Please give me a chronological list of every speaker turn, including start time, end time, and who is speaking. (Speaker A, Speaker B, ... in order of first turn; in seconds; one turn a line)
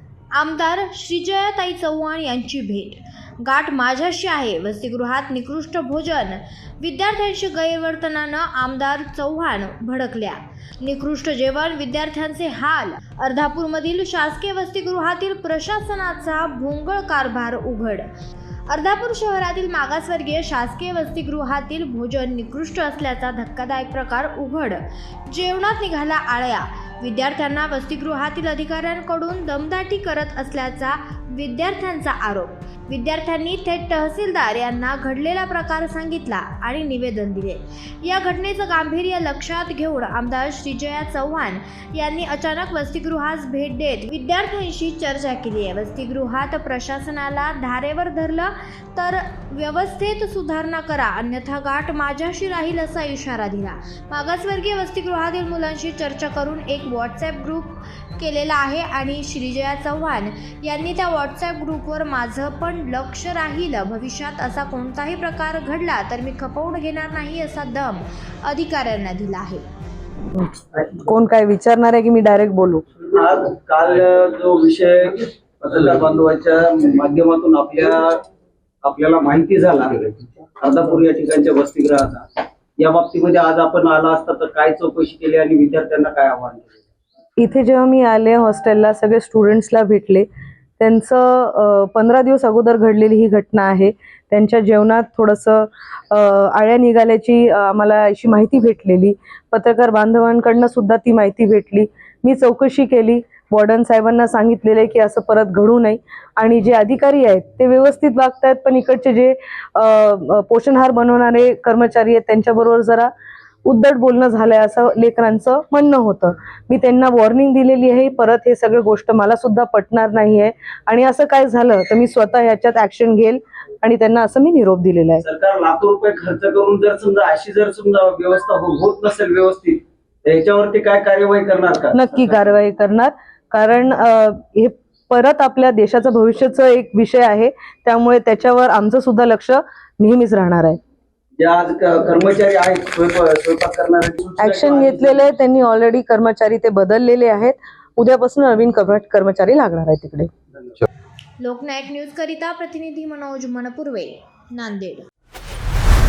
Speaker A: 0.3-18.1
Speaker A: 18.7-69.7
Speaker B: 70.3-72.8
Speaker C: 73.1-78.2
Speaker C: 78.8-82.3
Speaker C: 82.8-86.8
Speaker B: 87.4-90.3
Speaker B: 90.8-113.1
Speaker B: 113.7-125.2
Speaker C: 125.2-132.4
Speaker B: 131.9-140.8
Speaker C: 141.4-145.2
Speaker B: 144.4-150.3
Speaker C: 150.5-150.8
Speaker A: 151.4-155.1